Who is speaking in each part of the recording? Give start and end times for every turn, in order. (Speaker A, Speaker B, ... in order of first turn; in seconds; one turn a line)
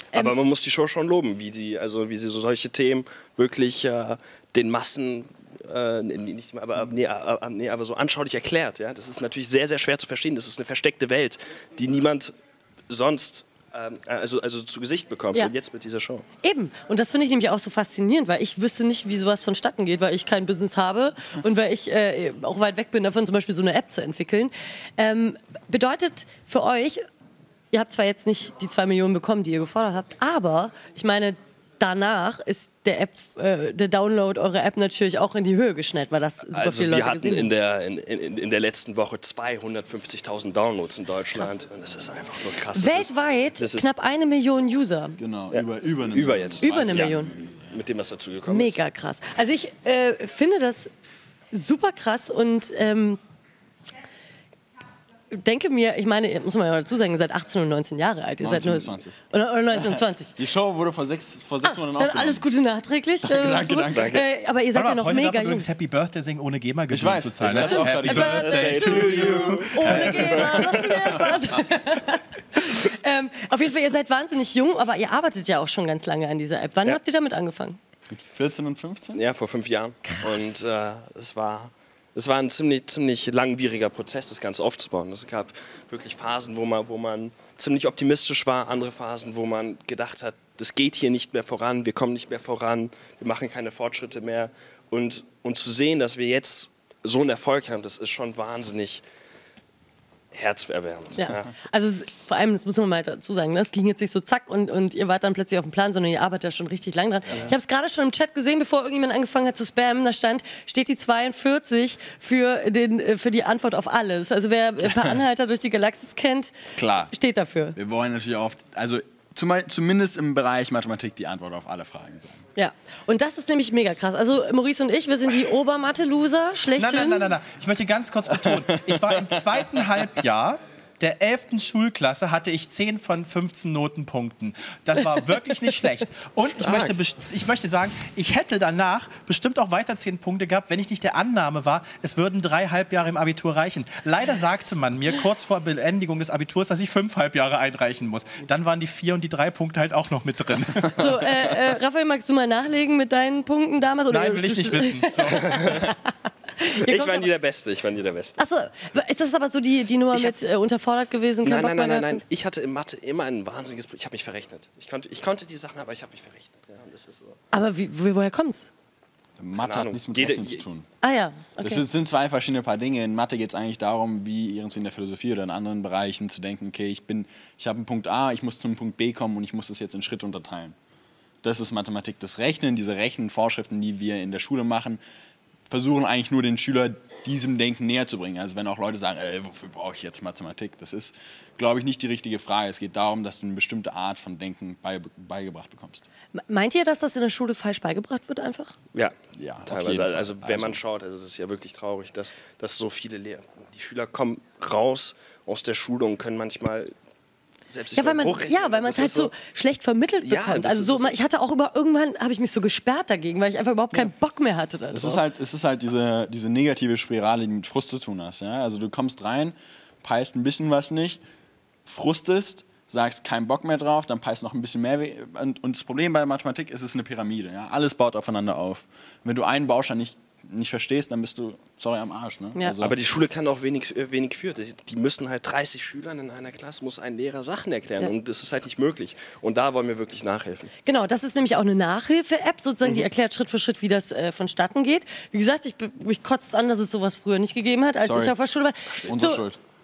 Speaker A: 0.1-12.3
Speaker A: 12.9-16.2
Speaker B: 16.4-27.0
Speaker B: 27.7-37.5
Speaker A: 36.5-43.9
Speaker B: 42.4-45.2
Speaker C: 45.2-47.6
Speaker A: 45.5-48.8
Speaker B: 46.6-47.3
Speaker B: 48.5-50.9
Speaker B: 51.5-53.2
Speaker B: 55.3-60.3
Speaker C: 58.4-59.2
Speaker C: 59.7-62.5
Speaker B: 61.6-65.7
Speaker C: 63.2-64.2
Speaker A: 63.9-64.2
Speaker D: 64.7-70.0
Speaker C: 66.9-71.6
Speaker B: 67.5-77.8
Speaker A: 67.6-71.0
Speaker C: 78.1-79.2
Speaker A: 79.1-99.0
Speaker A: 100.3-101.5
Speaker B: 101.2-116.6
Speaker C: 116.8-117.1
Speaker B: 117.1-117.7
Speaker C: 117.7-122.4
Speaker B: 122.5-127.3
Speaker D: 126.7-151.5
Speaker C: 128.7-129.4
Speaker A: 136.6-136.9
Speaker B: 150.9-156.0
Speaker D: 154.1-155.7
Speaker A: 155.3-155.9
Speaker B: 156.6-157.3
Speaker A: 156.7-158.4
Speaker B: 158.4-162.2
Speaker A: 161.4-167.4
Speaker B: 167.5-168.7
Speaker C: 169.4-170.9
Speaker A: 169.6-170.6
Speaker B: 171.0-171.8
Speaker C: 171.6-180.8
Speaker C: 181.4-185.0
Speaker C: 185.7-196.0
Speaker B: 196.3-198.7
Speaker A: 198.9-206.9
Speaker C: 199.4-200.8
Speaker A: 207.7-209.3
Speaker B: 207.9-215.2
Speaker A: 210.2-211.2
Speaker C: 214.9-221.2
Speaker C: 221.8-232.9
Speaker A: 232.8-240.7
Speaker B: 240.8-249.4
Speaker C: 248.0-248.4
Speaker C: 249.0-249.6